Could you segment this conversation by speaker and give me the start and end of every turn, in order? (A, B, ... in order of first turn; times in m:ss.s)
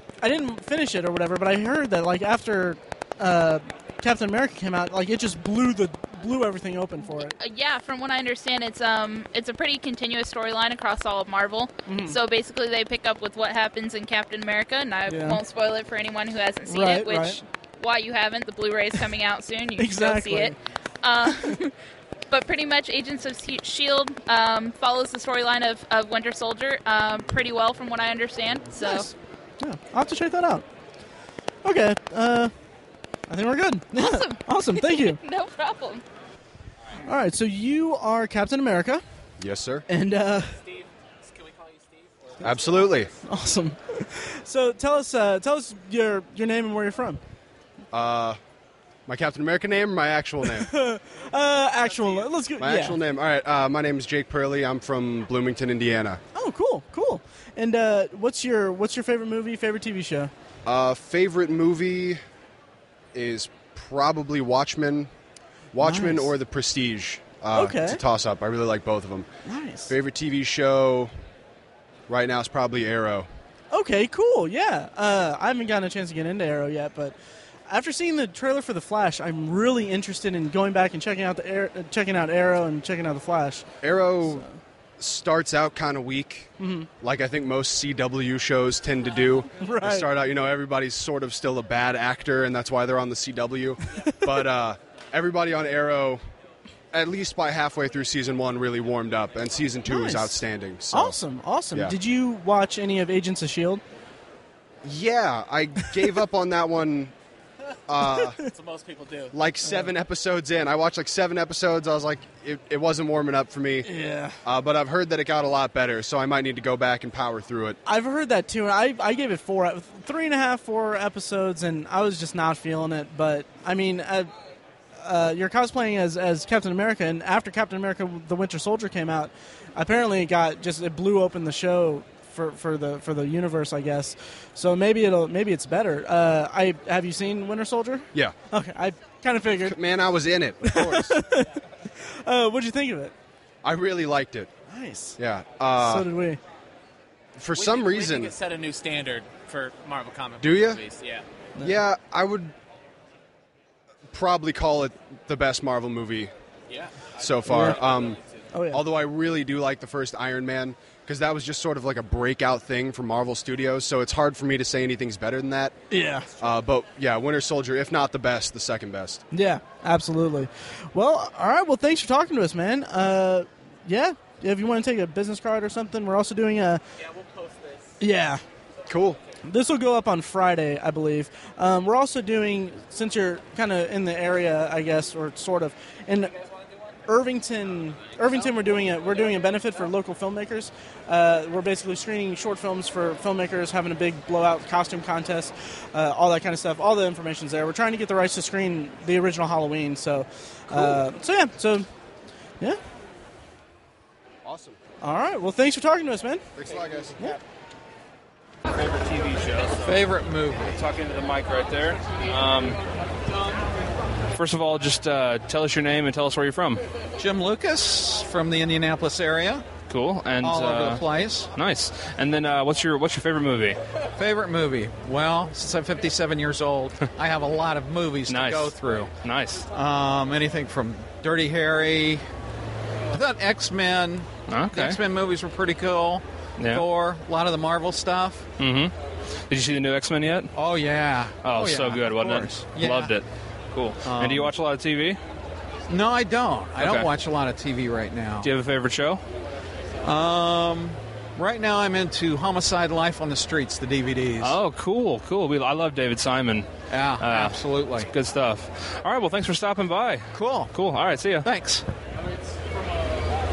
0:00.2-0:07.3 A
0:07.3-0:21.7 B
0:11.8-0:12.2 A
0:15.1-0:15.4 A
0:16.7-0:17.4 A
0:19.8-0:20.5 A
0:21.3-0:21.6 A
0:22.3-0:29.1 B
0:28.8-0:30.6 A
0:31.6-0:32.5 A
0:33.3-0:35.2 A
0:33.9-0:36.0 B
0:37.0-0:39.0 A
0:39.4-0:39.8 C
0:39.9-0:40.6 A
0:42.4-0:43.1 C
0:43.2-0:47.2 A
0:47.9-0:48.4 C
0:49.1-0:50.7 C
0:50.5-0:53.0 A
0:52.6-0:56.2 C
0:56.3-1:00.3 A
1:00.6-1:02.2 C
1:03.1-1:05.1 C
1:05.7-1:09.3 C
1:05.8-1:06.3 A
1:07.5-1:08.0 A
1:09.4-1:09.9 A
1:09.9-1:11.1 C
1:12.1-1:13.3 C
1:13.7-1:17.1 A
1:17.7-1:23.7 A
1:23.8-1:24.4 C
1:25.0-1:36.2 C
1:26.6-1:26.9 A
1:29.6-1:30.1 A
1:36.9-1:41.2 C
1:39.9-1:40.4 A
1:40.9-1:43.8 A
1:44.8-1:47.1 C
1:47.9-1:48.4 C
1:48.4-1:49.3 D
1:49.3-1:53.9 C
1:49.6-1:49.9 A
1:53.8-1:54.4 A
1:54.4-1:57.8 C
1:57.8-2:04.3 A
2:05.0-2:19.8 A
2:19.6-2:21.2 C
2:20.6-2:23.1 A
2:23.6-2:24.5 C
2:24.7-2:25.2 A
2:25.2-2:26.1 C
2:25.8-2:26.4 A
2:27.4-2:28.3 C
2:27.5-2:31.2 D
2:30.4-2:30.8 C
2:31.6-2:32.5 C
2:34.1-2:36.3 C
2:37.2-2:38.2 C
2:37.5-2:37.8 A
2:38.5-2:38.8 A
2:38.7-2:45.7 C
2:45.9-2:46.3 A
2:46.4-2:49.2 C
2:49.3-2:56.8 A
2:58.0-2:58.4 A
2:58.9-2:59.2 C
2:59.4-3:06.3 A
3:07.1-3:21.9 A
3:24.4-3:24.8 C
3:25.0-3:26.4 A
3:26.6-3:27.1 C
3:29.8-3:30.8 E
3:34.3-3:36.8 F
3:37.2-3:39.6 E
3:39.9-3:43.8 F
3:40.4-3:41.5 E
3:44.2-3:49.1 E
3:48.3-3:49.6 F
3:49.7-3:52.2 E
3:53.1-3:58.5 E
3:54.5-3:55.0 F
3:56.6-3:56.8 F
3:58.6-3:58.9 F
3:59.5-4:00.5 F
4:00.5-4:03.1 E
4:01.4-4:05.2 F
4:04.0-4:04.5 E
4:05.9-4:08.5 E
4:06.8-4:07.1 F
4:08.4-4:09.2 F
4:10.0-4:14.6 E
4:14.4-4:21.5 F
4:16.9-4:18.1 E
4:20.3-4:20.7 E
4:21.4-4:21.8 E